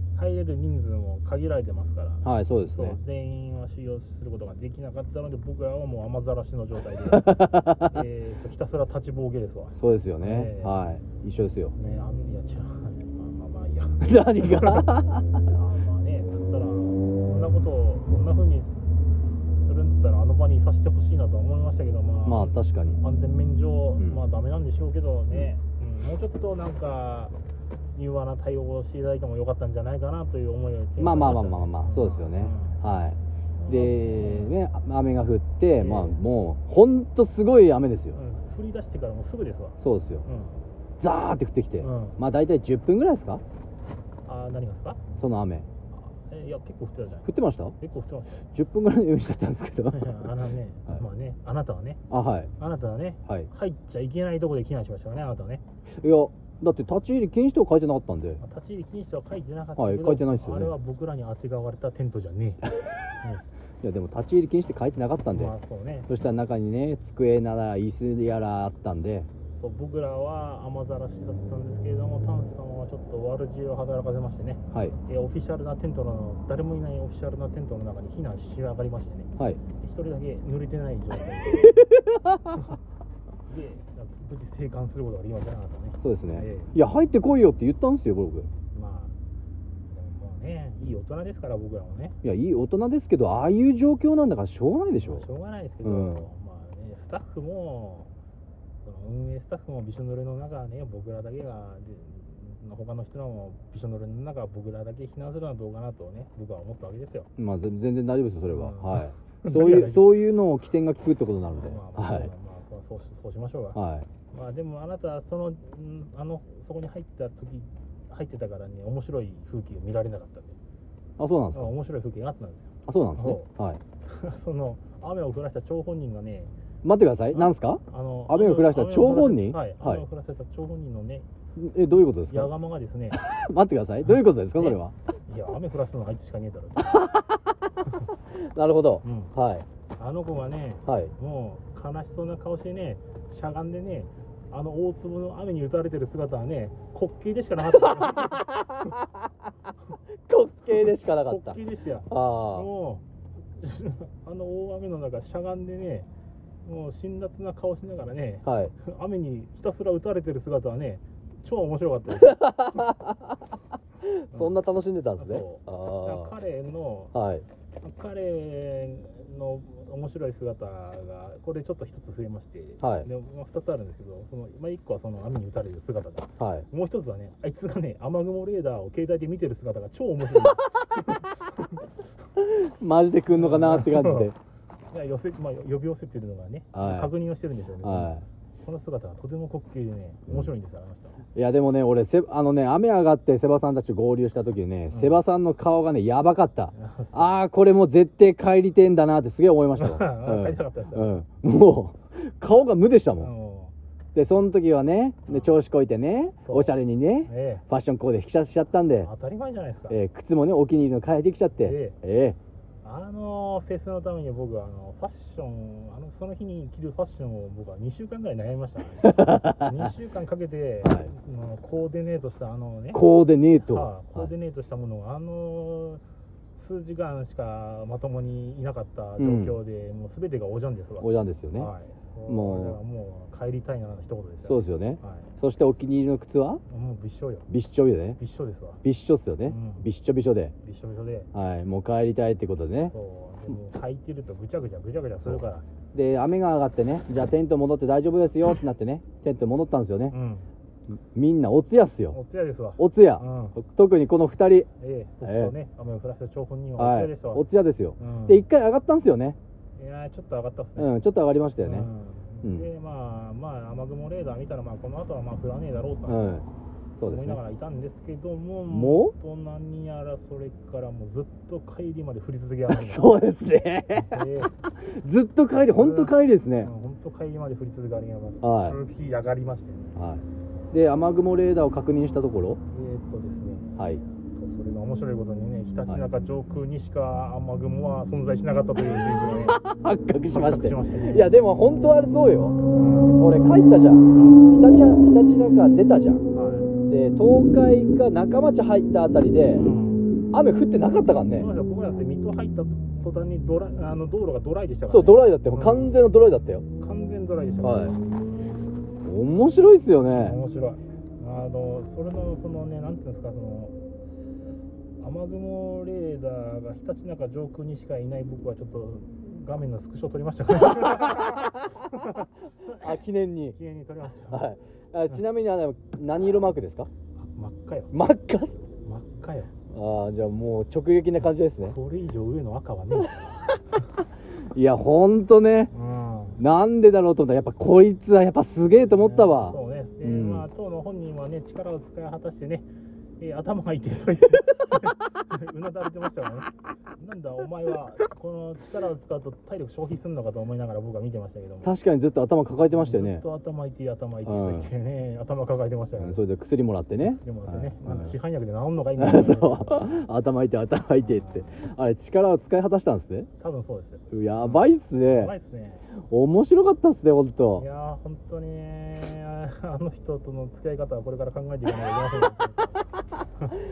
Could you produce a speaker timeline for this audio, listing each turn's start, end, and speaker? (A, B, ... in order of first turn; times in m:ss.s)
0:00.2-0:10.8 A
0:02.2-0:03.0 B
0:07.1-0:08.0 B
0:09.8-0:11.8 B
0:11.8-0:14.9 A
0:14.0-0:15.4 B
0:15.4-0:27.3 A
0:22.3-0:23.0 B
0:28.0-0:32.8 A
0:31.0-0:38.2 B
0:33.6-0:34.6 A
0:35.8-0:36.2 A
0:38.1-0:40.6 A
0:39.8-0:40.2 B
0:41.0-0:43.4 B
0:41.8-0:42.2 A
0:44.3-0:45.0 A
0:45.2-0:45.7 B
0:45.9-0:48.5 A
0:47.3-0:47.8 B
0:48.5-0:50.3 B
0:49.9-0:52.0 A
0:52.1-0:52.5 B
0:52.6-0:55.6 A
0:55.9-0:58.4 B
0:58.4-1:02.6 A
0:59.8-1:00.7 B
1:03.8-1:05.5 B
1:05.3-1:06.1 A
1:06.1-1:09.3 B
1:09.6-1:21.9 A
1:21.7-1:22.7 B
1:23.5-1:26.7 A
1:26.0-1:28.5 B
1:28.7-1:29.2 A
1:29.9-1:32.2 A
1:32.2-1:35.3 B
1:35.0-1:38.1 A
1:35.8-1:36.3 B
1:38.8-1:47.3 A
1:47.4-1:52.3 B
1:48.5-1:50.2 A
1:51.5-1:53.8 A
1:53.8-1:54.1 B
1:54.3-2:00.6 A
2:01.2-2:01.7 B
2:01.5-2:03.5 A
2:02.9-2:03.8 B
2:04.0-2:06.5 A
2:06.8-2:10.0 B
2:07.3-2:11.3 A
2:11.6-2:12.5 B
2:12.3-2:13.2 A
2:13.1-2:14.9 B
2:14.6-2:17.1 A
2:16.9-2:17.4 B
2:18.4-2:19.7 B
2:19.0-2:19.3 A
2:20.0-2:28.5 A
2:20.9-2:21.1 B
2:27.8-2:29.1 B
2:30.3-2:31.6 B
2:30.7-2:33.0 A
2:32.1-2:32.7 B
2:33.5-2:36.1 A
2:36.6-2:42.8 A
2:38.4-2:38.7 B
2:42.2-2:43.4 B
2:44.0-2:46.3 B
2:44.3-2:44.6 A
2:45.2-2:47.1 A
2:47.1-2:47.4 B
2:47.8-3:01.9 A
2:52.8-2:53.1 B
2:56.4-2:56.7 B
3:02.4-3:04.4 B
3:03.3-3:04.3 A
3:04.9-3:11.2 A
3:06.7-3:07.1 B
3:07.8-3:08.2 B
3:11.4-3:23.3 B
3:14.9-3:15.2 A
3:16.7-3:17.4 A
3:19.8-3:21.2 A
3:23.2-3:23.7 A
3:24.2-3:29.1 B
3:25.3-3:25.6 A
3:26.4-3:26.7 A
3:27.3-3:27.7 A
3:29.0-3:30.0 A
3:29.9-3:32.4 B
3:31.6-3:32.0 A
3:32.8-3:43.0 A
3:39.0-3:39.9 B
3:40.8-3:41.1 B
3:42.9-3:44.3 B
3:43.6-3:46.0 A
3:46.6-3:55.3 A
3:49.2-3:49.6 B
3:51.0-3:51.7 B
3:52.3-3:52.8 B
3:54.4-3:56.6 B
3:56.7-3:57.5 A
3:57.5-3:58.2 B
3:58.2-3:58.8 A
3:58.8-4:00.5 B
3:59.4-3:59.9 A
4:00.6-4:01.3 A
4:01.3-4:02.9 B
4:02.9-4:05.7 A
4:05.9-4:10.2 B
4:10.1-4:10.5 A
4:10.9-4:12.2 B
4:12.1-4:13.6 A
4:12.8-4:14.7 B
4:14.8-4:17.4 A
4:15.2-4:15.5 B
4:16.8-4:19.4 B
4:18.0-4:18.4 A
4:19.8-4:20.9 A
4:20.8-4:21.9 B
4:21.6-4:26.4 A
4:26.1-4:26.5 B
4:27.0-4:27.4 B
4:27.1-4:33.3 A
4:28.7-4:29.1 B
4:32.7-4:36.7 B
4:33.9-4:34.5 A
4:35.6-4:40.0 A
4:38.4-4:38.8 B
4:40.0-4:42.6 B
4:42.7-4:49.6 A
4:49.5-4:52.6 B
4:50.2-4:51.4 A
4:52.7-4:53.2 A
4:53.2-4:56.2 B
4:54.1-4:54.6 A
4:56.3-4:56.7 A
4:56.9-4:59.7 B
4:59.5-5:00.1 A
5:00.3-5:01.5 B
5:01.3-5:05.9 A
5:04.9-5:06.6 B
5:06.8-5:08.0 A
5:07.6-5:08.0 B
5:09.0-5:10.4 B
5:10.1-5:13.8 A
5:15.0-5:24.5 A
5:20.8-5:21.7 B
5:22.7-5:23.6 B
5:24.3-5:26.9 B
5:27.2-5:27.9 A
5:27.9-5:28.6 B
5:28.8-5:29.5 A
5:29.7-5:31.8 B
5:31.7-5:33.4 A
5:34.5-5:35.7 B
5:35.7-5:36.4 A
5:36.4-5:40.5 B
5:38.9-5:42.7 A
5:43.2-5:51.7 A
5:51.6-5:53.2 B
5:52.5-5:56.2 A
5:54.2-5:54.7 B
5:56.0-5:58.2 B
5:57.0-6:00.0 A
5:59.0-6:03.3 B
6:01.0-6:01.6 A
6:03.4-6:05.9 A
6:04.1-6:05.3 B
6:05.9-6:07.6 B
6:07.6-6:12.8 A